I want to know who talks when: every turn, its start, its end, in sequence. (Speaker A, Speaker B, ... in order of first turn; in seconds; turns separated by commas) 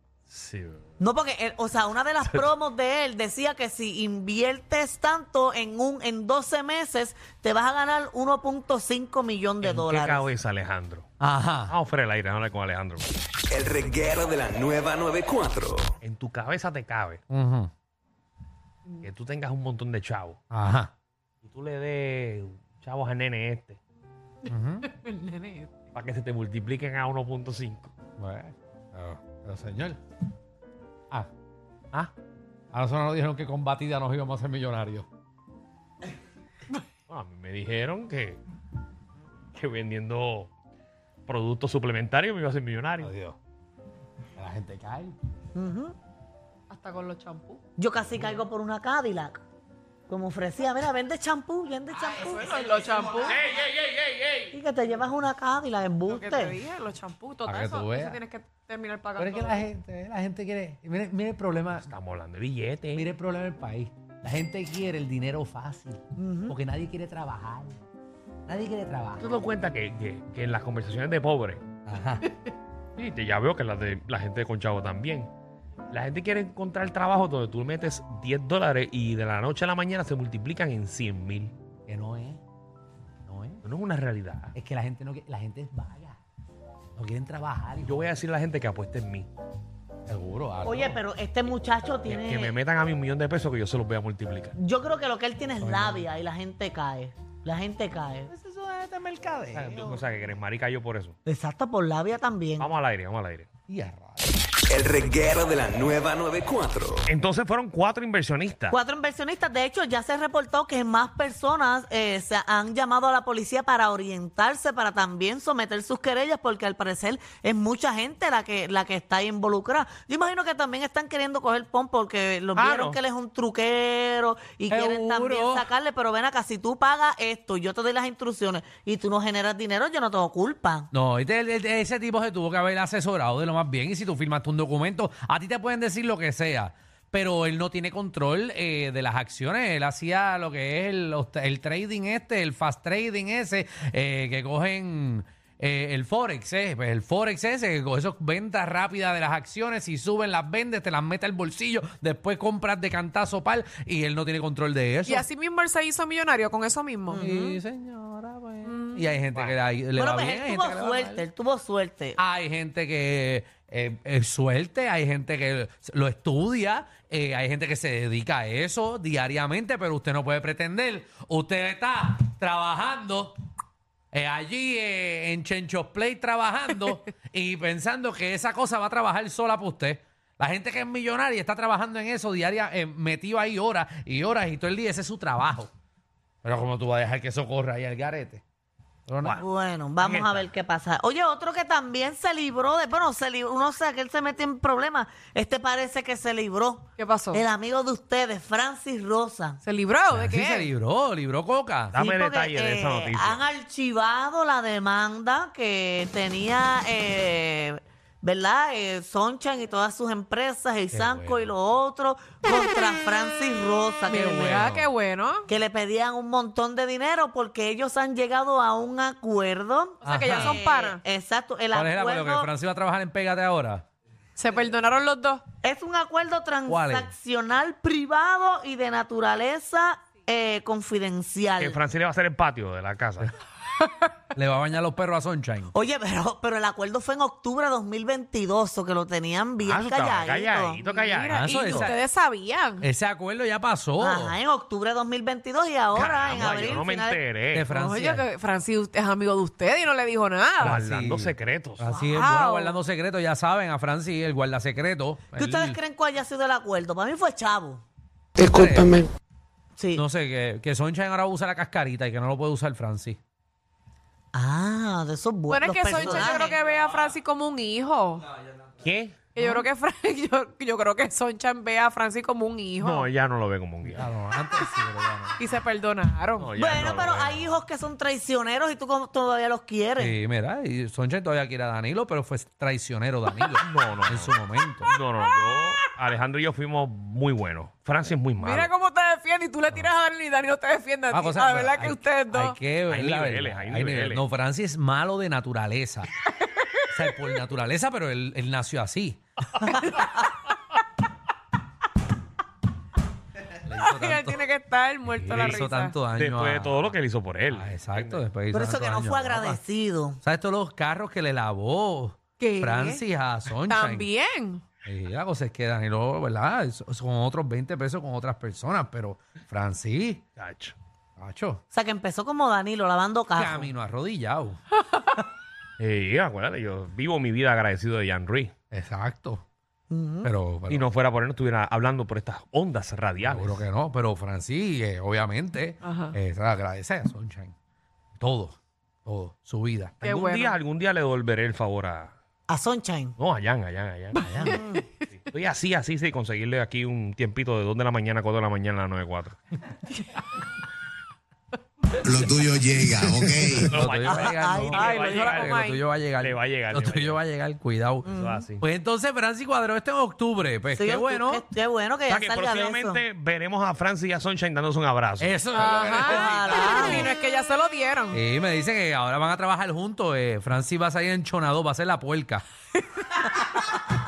Speaker A: 0.3-0.9, Speaker B: 1.0-10.2, Speaker A: 2.2-2.5, Speaker A: 9.6-11.1, Speaker C: 11.2-11.7, Speaker A: 11.7-13.1, Speaker D: 13.5-15.9, Speaker A: 16.0-17.2, Speaker C: 17.3-17.7, Speaker A: 19.0-20.4, Speaker C: 20.5-20.9, Speaker A: 21.4-23.8, Speaker C: 24.5-24.9, Speaker E: 24.9-25.7, Speaker A: 25.9-27.9, Speaker C: 28.2-30.0, Speaker C: 32.7-35.0, Speaker A: 37.1-38.4, Speaker A: 39.5-40.5, Speaker A: 41.3-43.1, Speaker C: 43.0-43.4, Speaker C: 44.4-45.2, Speaker B: 45.5-46.0, Speaker E: 46.7-47.6, Speaker B: 47.8-49.4, Speaker B: 50.1-52.4, Speaker E: 52.2-53.4, Speaker A: 53.5-54.5, Speaker B: 54.5-56.5, Speaker E: 56.0-59.7, Speaker C: 57.4-58.2, Speaker C: 59.2-61.9, Speaker A: 61.8-63.1, Speaker C: 62.9-67.8, Speaker B: 66.2-66.5, Speaker C: 68.5-69.2, Speaker A: 69.2-71.6, Speaker C: 71.8-72.2, Speaker A: 73.0-75.3, Speaker A: 75.9-81.5, Speaker C: 81.9-82.4, Speaker C: 83.3-83.6, Speaker A: 83.6-84.5, Speaker C: 84.5-86.2, Speaker C: 87.0-88.1, Speaker A: 87.8-89.3, Speaker C: 90.1-91.0, Speaker B: 90.7-92.5, Speaker A: 92.1-94.5, Speaker B: 94.6-98.3, Speaker C: 95.6-96.2, Speaker C: 98.3-100.0, Speaker A: 99.5-101.2, Speaker B: 101.2-102.7, Speaker A: 102.6-103.5, Speaker C: 103.7-104.2, Speaker D: 104.7-107.1, Speaker A: 107.1-108.8, Speaker B: 108.7-130.9, Speaker A: 122.5-123.0, Speaker C: 124.7-125.7, Speaker C: 130.9-155.2, Speaker E: 155.0-157.3, Speaker C: 157.1-161.2, Speaker E: 158.6-159.1, Speaker B: 159.9-162.2, Speaker C: 162.2-173.3, Speaker C: 174.1-185.7, Speaker C: 186.4-188.4, Speaker C: 189.1-189.4, Speaker B: 189.4-199.6, Speaker A: 190.0-190.5, Speaker E: 197.0-197.4, Speaker E: 199.6-200.7, Speaker C: 200.1-202.0, Speaker A: 201.9-203.4, Speaker B: 202.0-214.1, Speaker C: 210.9-211.5, Speaker E: 214.1-215.5, Speaker C: 214.1-214.9, Speaker B: 215.5-222.5, Speaker E: 220.0-221.0, Speaker C: 220.0-220.6, Speaker C: 221.7-223.8, Speaker E: 224.3-225.4, Speaker B: 225.6-231.7, Speaker C: 226.7-227.1, Speaker A: 231.6-233.3, Speaker C: 234.3-235.7, Speaker B: 235.7-240.8, Speaker A: 239.6-241.7, Speaker E: 240.8-242.8, Speaker C: 241.3-242.0, Speaker C: 242.8-244.4, Speaker B: 244.0-247.2, Speaker A: 245.9-247.7, Speaker C: 246.3-246.7, Speaker C: 247.5-248.3, Speaker E: 247.7-250.9, Speaker C: 250.6-255.8, Speaker A: 250.6-251.9, Speaker E: 251.9-252.7, Speaker B: 255.4-257.8, Speaker B: 258.4-259.1, Speaker C: 258.4-259.0, Speaker B: 259.8-260.0, Speaker C: 259.9-263.2, Speaker B: 264.3-266.1, Speaker E: 265.5-268.3, Speaker A: 266.0-266.5, Speaker A: 268.8-269.3, Speaker E: 269.3-273.1, Speaker A: 272.8-274.1, Speaker C: 273.8-275.4, Speaker E: 275.4-276.5, Speaker A: 276.4-277.6, Speaker B: 276.6-280.1, Speaker C: 280.0-284.9, Speaker A: 283.6-284.3, Speaker A: 284.9-288.7, Speaker E: 285.3-285.7, Speaker E: 288.4-292.6, Speaker C: 291.1-296.1, Speaker A: 292.8-294.2, Speaker C: 296.9-299.2, Speaker A: 299.5-299.9, Speaker E: 299.8-300.1, Speaker C: 303.6-304.4, Speaker E: 303.7-305.9, Speaker C: 305.2-306.9, Speaker A: 306.1-308.2, Speaker C: 307.5-309.6, Speaker B: 308.5-310.2, Speaker C: 310.2-314.1, Speaker E: 312.4-313.0, Speaker E: 313.6-314.6, Speaker C: 314.8-320.2, Speaker A: 320.4-320.7, Speaker C: 321.2-321.6, Speaker B: 321.7-323.7, Speaker C: 323.3-324.6, Speaker A: 325.8-328.5, Speaker C: 328.7-329.4, Speaker B: 329.9-330.3, Speaker C: 330.2-330.9, Speaker A: 330.7-333.6, Speaker C: 333.2-337.5, Speaker E: 335.8-336.1, Speaker C: 338.2-340.0, Speaker A: 340.0-342.1, Speaker E: 340.0-340.6, Speaker B: 342.5-343.1, Speaker A: 343.2-344.4, Speaker E: 344.2-344.6, Speaker C: 344.2-344.6, Speaker B: 344.5-344.8, Speaker A: 345.1-349.4, Speaker B: 352.1-353.7, Speaker C: 352.9-361.4, Speaker A: 353.7-355.6, Speaker E: 354.7-355.8, Speaker A: 356.2-357.2, Speaker A: 358.0-358.6, Speaker B: 360.8-363.0, Speaker A: 362.1-365.3, Speaker C: 365.2-367.1, Speaker E: 365.5-368.2, Speaker B: 366.4-366.9, Speaker C: 368.1-372.4